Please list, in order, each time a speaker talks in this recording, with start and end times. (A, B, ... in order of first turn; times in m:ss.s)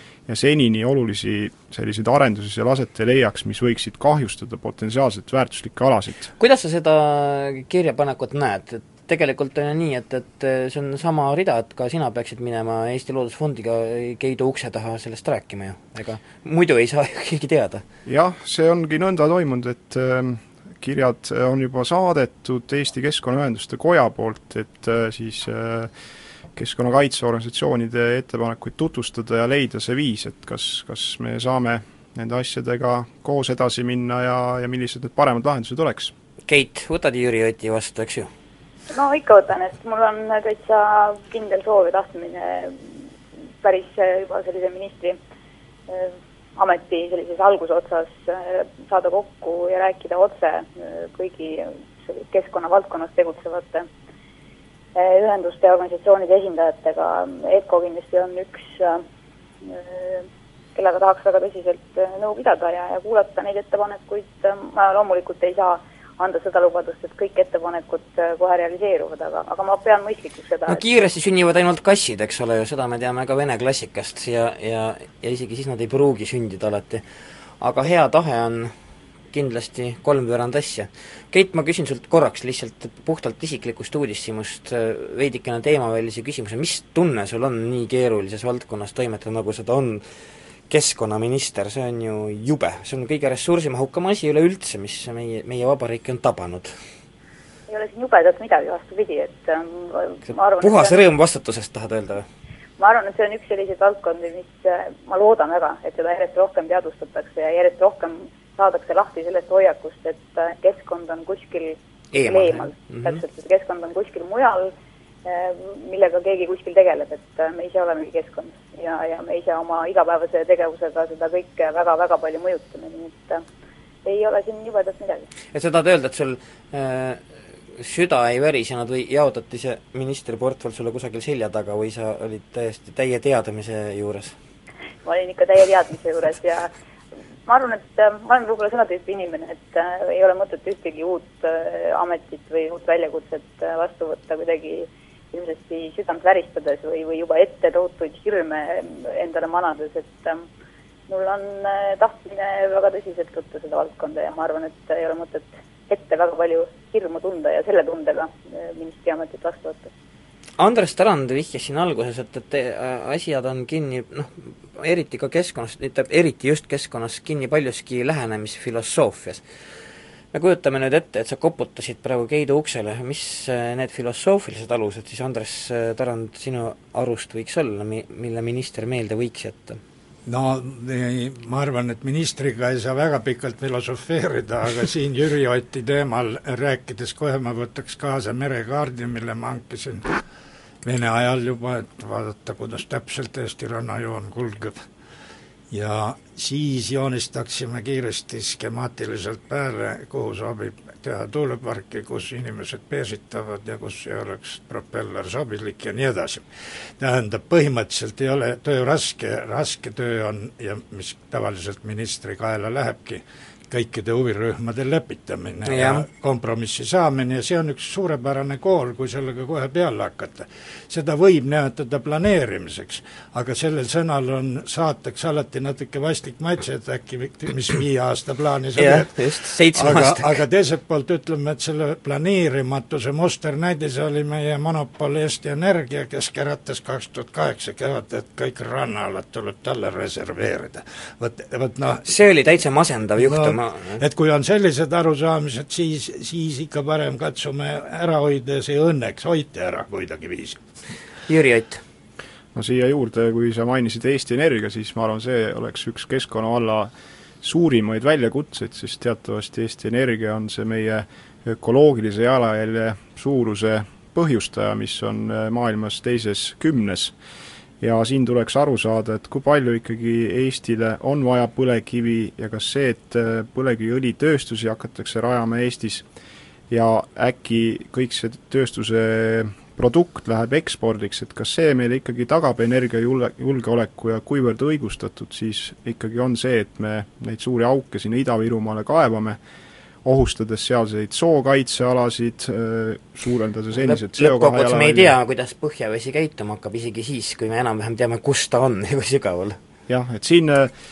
0:00.3-0:06.3 A
0:06.4-0:17.8 B
0:18.0-0:25.9 A
0:26.6-0:36.1 A
0:36.5-0:38.3 B
0:38.9-0:42.8 C
0:43.6-0:45.2 C
0:45.9-0:53.8 C
0:55.0-0:59.0 C
0:59.6-1:00.2 C
1:00.7-1:10.9 C
1:10.7-1:17.0 B
1:17.6-1:18.7 B
1:19.3-1:30.0 B
1:30.7-1:36.7 B
1:37.7-1:41.0 C
1:40.3-1:42.2 B
1:42.8-1:54.7 C
1:52.1-1:53.2 B
1:55.2-2:03.4 C
2:04.0-2:05.3 C
2:05.5-2:07.2 B
2:07.8-2:14.3 B
2:15.0-2:16.7 C
2:17.5-2:30.4 C
2:31.1-2:39.9 C
2:40.6-2:49.4 B
2:50.3-2:59.8 B
3:00.2-3:10.1 D
3:10.8-3:14.8 D
3:15.7-3:26.4 D
3:27.0-4:02.1 D
3:35.7-3:36.0 B
3:48.8-3:50.4 B
4:02.0-4:04.0 B
4:03.2-4:10.6 D
4:11.3-4:11.8 B
4:12.5-4:16.9 A
4:17.4-4:27.1 A
4:27.8-4:36.0 A
4:36.7-4:49.4 A
4:50.0-4:55.1 A
4:53.8-4:59.6 B
4:59.9-5:00.7 A